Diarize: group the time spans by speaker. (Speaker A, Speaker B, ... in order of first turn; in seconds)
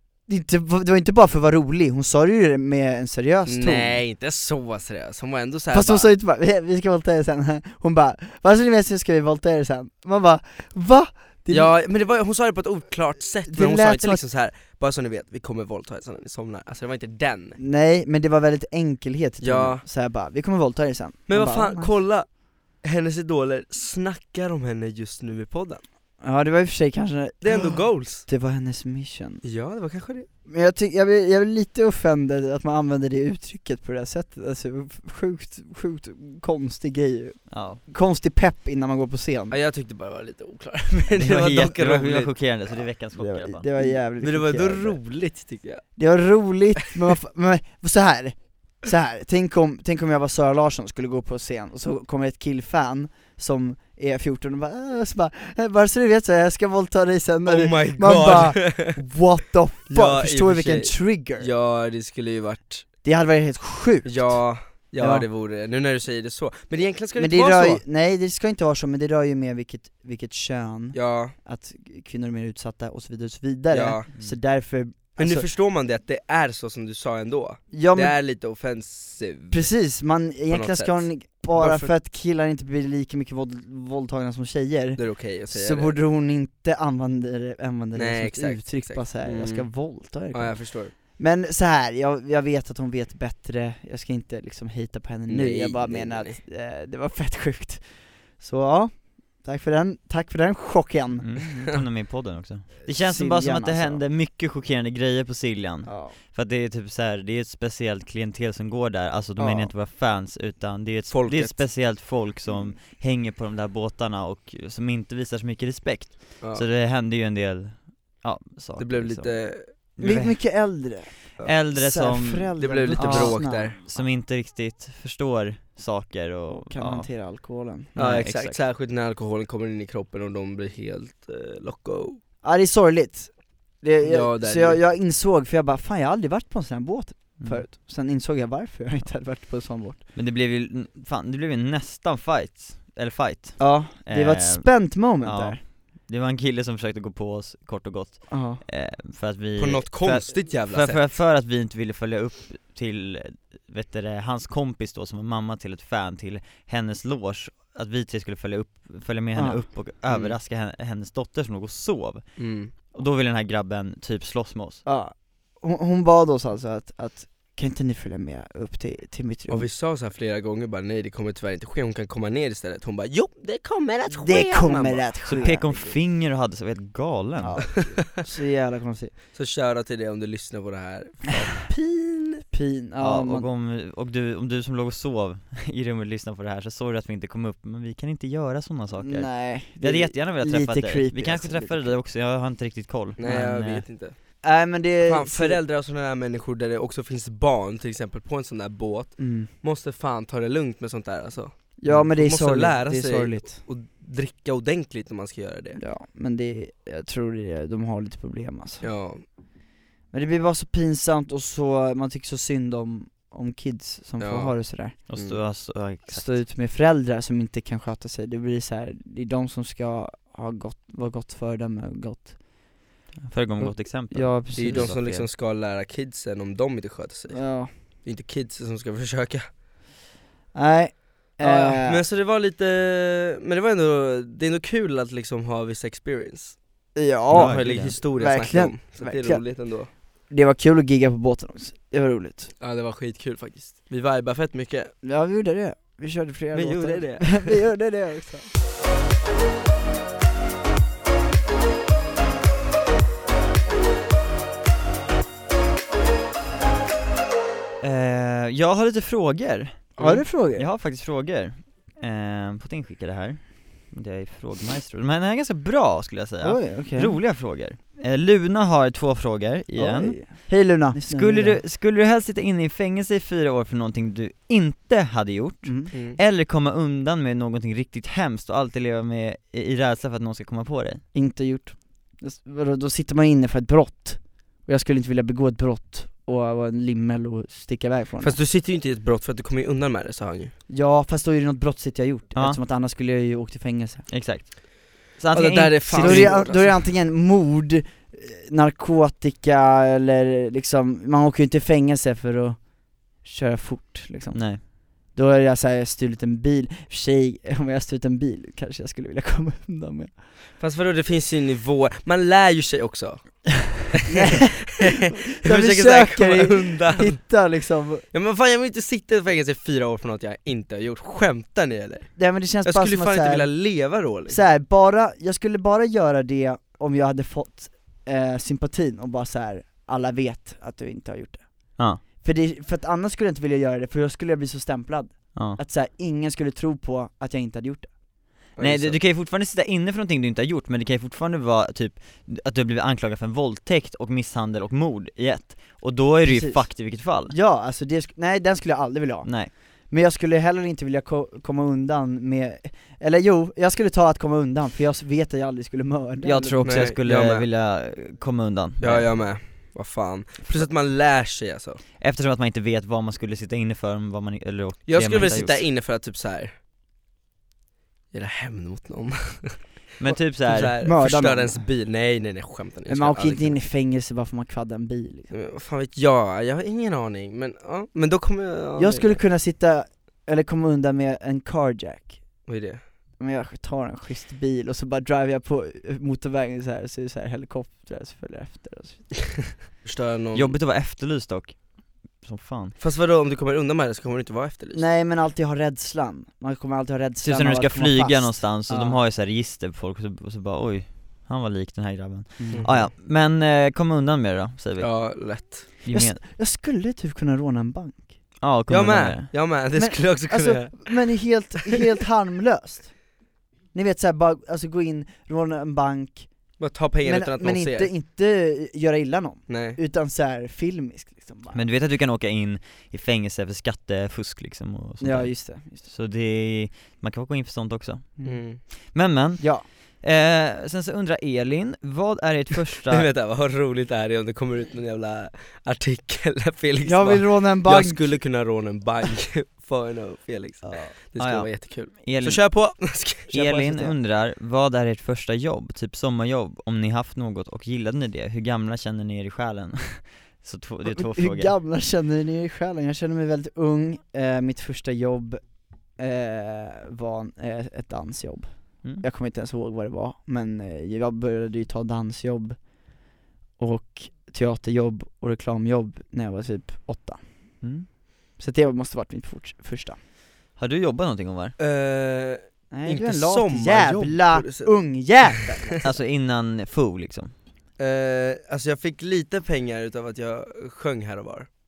Speaker A: 0.3-4.0, 5.7-11.7, 13.5-14.2, 17.6-21.9, 26.2-29.4, 30.4-39.6, 43.2-45.0, 46.0-61.5, 63.0-65.2, 67.2-75.5, 77.7-78.1, 79.5-101.3, 102.8-104.0, 105.8-106.2, 109.4-109.7, 120.0-124.0, 126.5-127.9, 132.4-140.0, 143.6-145.6, 148.3-148.6, 159.3-159.6, 164.8-169.7, 174.1-175.8, 177.4-179.1, 182.5-183.5, 189.0-192.0, 194.4-195.6, 199.2-199.5, 201.8-203.6, 205.8-208.9, 210.1-214.9, 216.1-222.7, 223.6-224.9, 227.3-227.7, 230.5-232.0, 236.9-242.5, 245.0-248.5, 260.0-260.6, 266.4-267.2, 269.7-271.6, 275.6-275.9, 281.1-288.4, 290.7-294.1, 295.9-310.2, 314.1-318.0, 322.2-323.5, 324.3-337.9, 346.2-356.7, 370.8-371.7, 372.9-375.3, 378.8-382.4, 383.2-389.4, 394.7-399.0, 402.4-402.9, 405.9-408.2, 409.7-413.0, 413.7-416.3, 417.0-421.7, 425.0-425.8, 428.2-428.4, 429.4-429.6, 436.8-438.2, 450.8-462.9, 463.6-467.2, 468.4-470.0, 472.7-475.8
Speaker B: 3.5-6.1, 11.5-17.6, 19.4-19.8, 21.3-25.8, 27.4-28.2, 29.4-30.3, 39.5-42.5, 43.8-45.8, 57.5-59.0, 59.9-62.9, 64.0-67.8, 70.9-71.3, 73.7-74.1, 75.2-79.8, 80.5-81.9, 85.0-86.0, 87.9-90.9, 95.3-96.4, 111.1-111.7, 118.8-119.7, 122.6-123.8, 128.0-132.2, 134.0-134.8, 149.6-151.2, 160.1-160.4, 162.4-162.7, 169.5-175.8, 179.3-182.4, 193.2-194.2, 195.0-205.8, 208.8-209.2, 214.2-215.4, 224.5-229.5, 231.4-236.6, 237.3-239.9, 242.6-244.9, 246.5-247.6, 260.0-260.2, 275.9-276.2, 288.2-290.5, 295.3-296.8, 310.6-317.3, 318.1-324.4, 338.6-339.0, 356.6-357.4, 358.8-361.8, 364.9-366.5, 368.1-369.6, 370.3-373.6, 375.3-379.2, 382.5-382.8, 389.8-390.5, 392.8-394.9, 402.5-402.8, 404.8-405.7, 408.7-410.9, 416.6-417.9, 419.5-419.8, 428.2-428.6, 432.9-443.9, 471.6-474.7, 477.8-481.5
Speaker C: 37.5-37.8, 41.2-43.6, 101.2-119.3, 120.0-120.4, 121.5-127.1, 127.9-128.6, 137.4-137.6, 140.1-162.4, 162.9-164.8, 175.3-177.8, 183.0-193.8, 215.1-216.4, 223.2-225.3, 237.3-238.0, 257.8-281.0, 292.3-292.6, 294.1-296.4, 304.3-304.6, 335.3-335.6, 338.6-347.3, 349.2-349.5, 356.2-359.1, 362.0-365.6, 370.0-370.8, 390.3-391.7, 392.2-392.7, 397.2-404.9, 405.8-406.2, 408.4-409.3, 421.5-428.1, 428.9-429.5, 430.0-433.1, 441.2-442.4, 443.3-451.6, 467.6-467.9, 470.6-471.5, 475.8-477.3